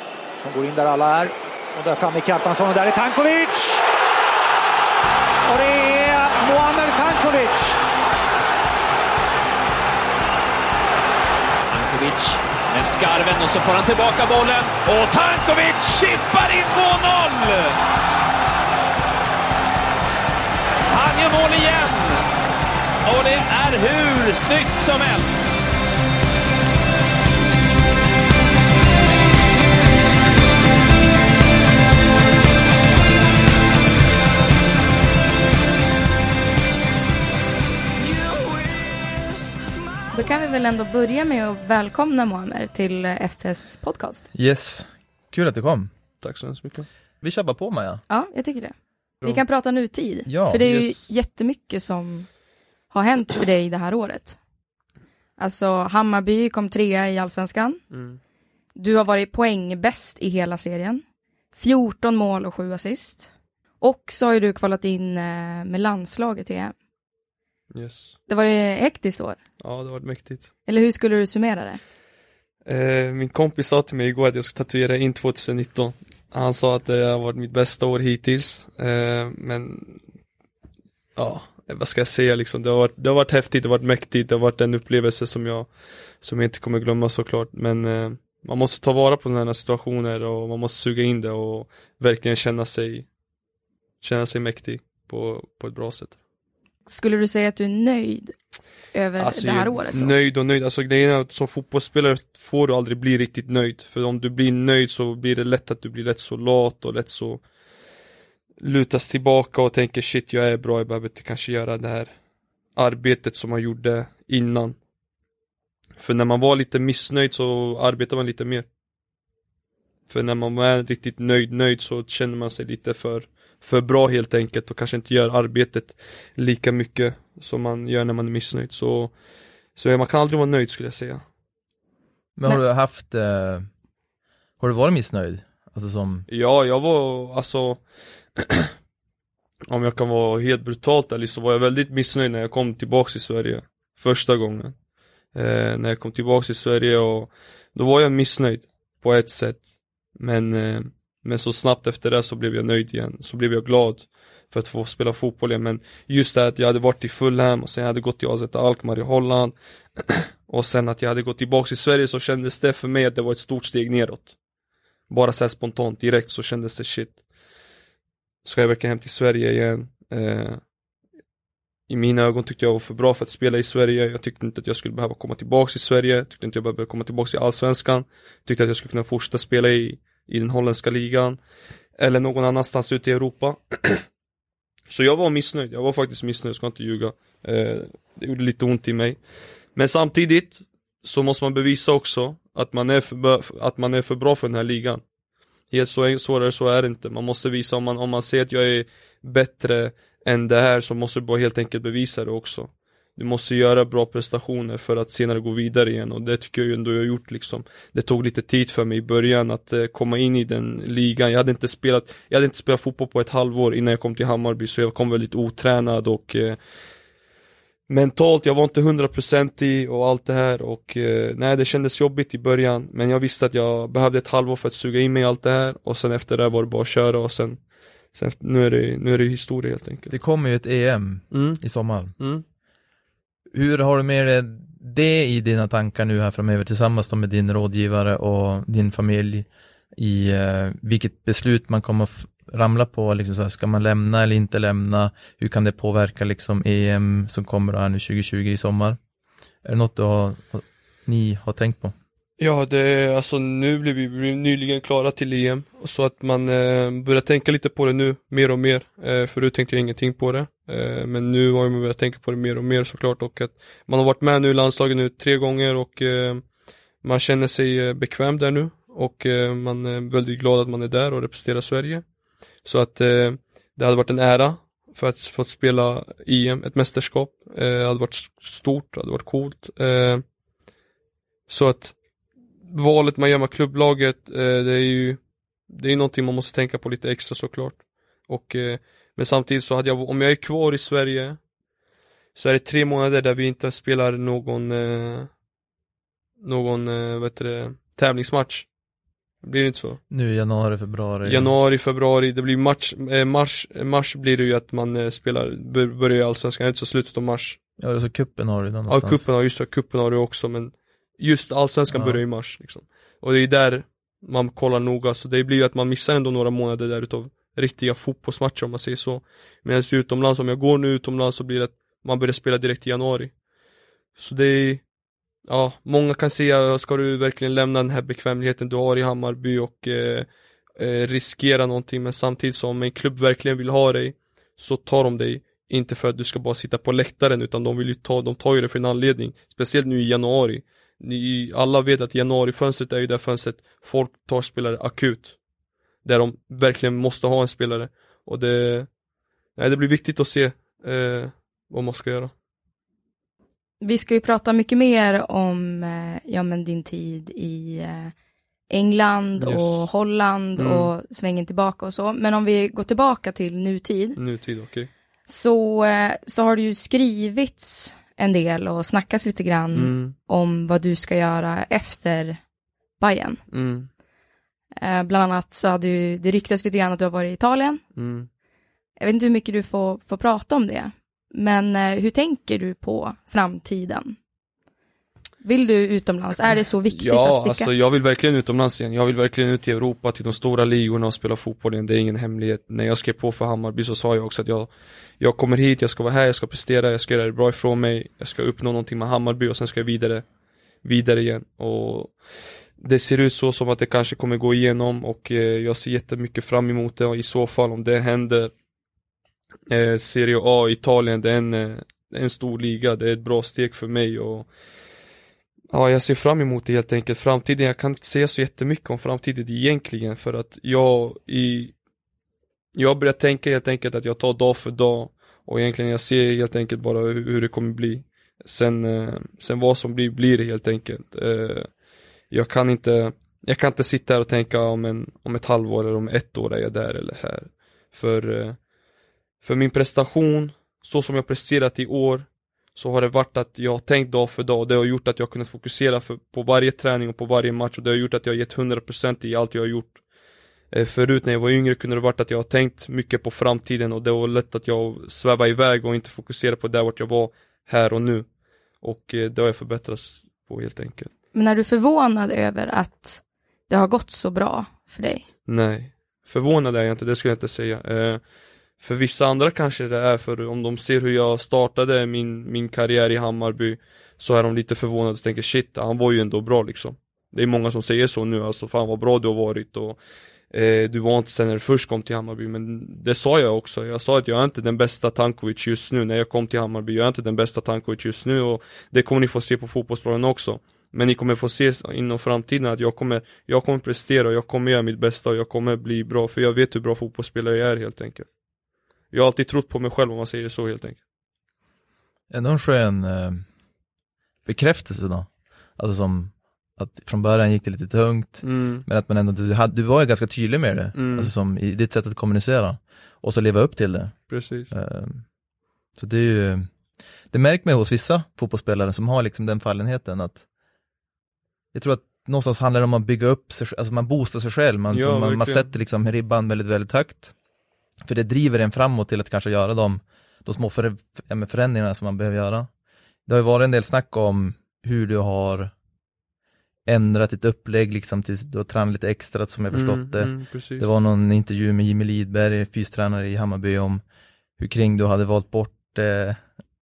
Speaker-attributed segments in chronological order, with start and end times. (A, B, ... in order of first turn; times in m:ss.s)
0:00.4-0:03.8 A
0:05.5-0:07.8 A
0:11.7-0:17.8 B
0:20.9-0:22.2 B
0:23.0-0:25.6 B
0:40.1-0:44.3 C
0:44.3-0:45.9 D
0:46.2-0:46.9 E
0:47.2-0:48.0 D
0:48.1-0:52.3 C
0:50.3-0:50.6 D
0:50.6-0:51.1 E
0:52.9-0:54.4 C
0:55.4-0:57.8 C
0:57.9-0:58.2 E
0:58.8-1:01.0 C
1:01.5-1:03.3 C
1:03.8-1:06.7 C
1:07.7-1:08.2 E
1:08.3-1:09.4 C
1:09.6-1:10.5 E
1:10.7-1:11.8 C
1:12.7-1:20.0 E
1:21.2-1:25.7 E
1:26.2-1:33.1 E
1:34.0-1:36.2 E
1:36.9-1:38.4 C
1:38.9-1:40.1 C
1:39.2-1:47.4 E
1:48.6-1:52.1 E
1:52.8-1:54.8 E
1:56.0-1:58.7 E
2:00.1-2:09.1 E
2:09.8-2:11.2 E
2:12.4-2:13.7 D
2:14.6-2:16.3 D
2:16.3-2:17.8 E
2:18.4-2:18.7 E
2:19.7-2:24.7 E
2:25.4-2:29.6 E
2:30.2-2:44.3 E
2:45.1-2:47.2 E
2:48.4-2:50.6 E
2:51.9-3:01.4 E
3:02.0-3:04.0 E
3:04.9-3:09.2 E
3:09.8-3:15.0 E
3:15.7-3:36.6 E
3:37.9-3:47.6 E
3:48.1-3:50.2 E
3:50.1-3:52.2 D
3:51.3-3:51.6 E
3:52.2-3:52.4 E
3:53.5-4:09.0 D
4:09.6-4:11.9 D
4:12.4-4:26.4 E
4:27.0-4:32.0 E
4:32.6-4:40.2 E
4:41.5-4:42.0 E
4:42.7-4:51.4 E
4:52.4-4:55.3 E
4:56.4-4:58.7 E
4:59.4-5:00.0 E
5:00.1-5:01.5 D
5:01.2-5:07.6 E
5:07.8-5:09.3 D
5:08.9-5:23.3 E
5:11.9-5:12.2 D
5:24.2-5:24.8 E
5:25.5-5:45.4 E
5:46.0-5:48.9 E
5:49.6-5:52.3 E
5:53.8-5:58.1 C
5:58.7-6:04.2 C
5:59.4-5:59.9 E
6:00.6-6:00.9 E
6:04.2-6:04.9 E
6:05.3-6:12.4 C
6:09.8-6:10.2 E
6:13.0-6:13.4 C
6:13.5-6:13.9 E
6:14.8-6:17.8 C
6:18.0-6:18.3 E
6:19.0-6:24.2 C
6:25.4-6:27.7 C
6:26.9-6:34.7 E
6:35.2-6:40.2 E
6:40.8-6:42.2 E
6:42.8-6:48.5 E
6:49.7-6:54.5 E
6:55.7-7:01.7 E
7:02.8-7:11.7 E
7:12.3-7:18.6 E
7:19.4-7:30.0 E
7:30.7-7:38.3 E
7:38.8-7:41.1 E
7:41.3-7:45.2 C
7:45.5-7:48.2 E
7:48.8-8:00.0 E
8:00.5-8:18.3 E
8:19.1-8:21.0 E
8:22.3-8:23.4 D
8:24.5-8:35.2 D
8:28.4-8:28.8 E
8:31.0-8:31.3 E
8:34.3-8:34.7 E
8:36.0-8:36.7 D
8:37.3-8:40.4 D
8:41.7-8:47.3 D
8:44.9-8:45.7 E
8:48.0-8:52.7 D
8:53.3-8:55.7 D
8:56.9-9:04.0 D
8:59.7-9:00.9 E
9:04.6-9:06.4 D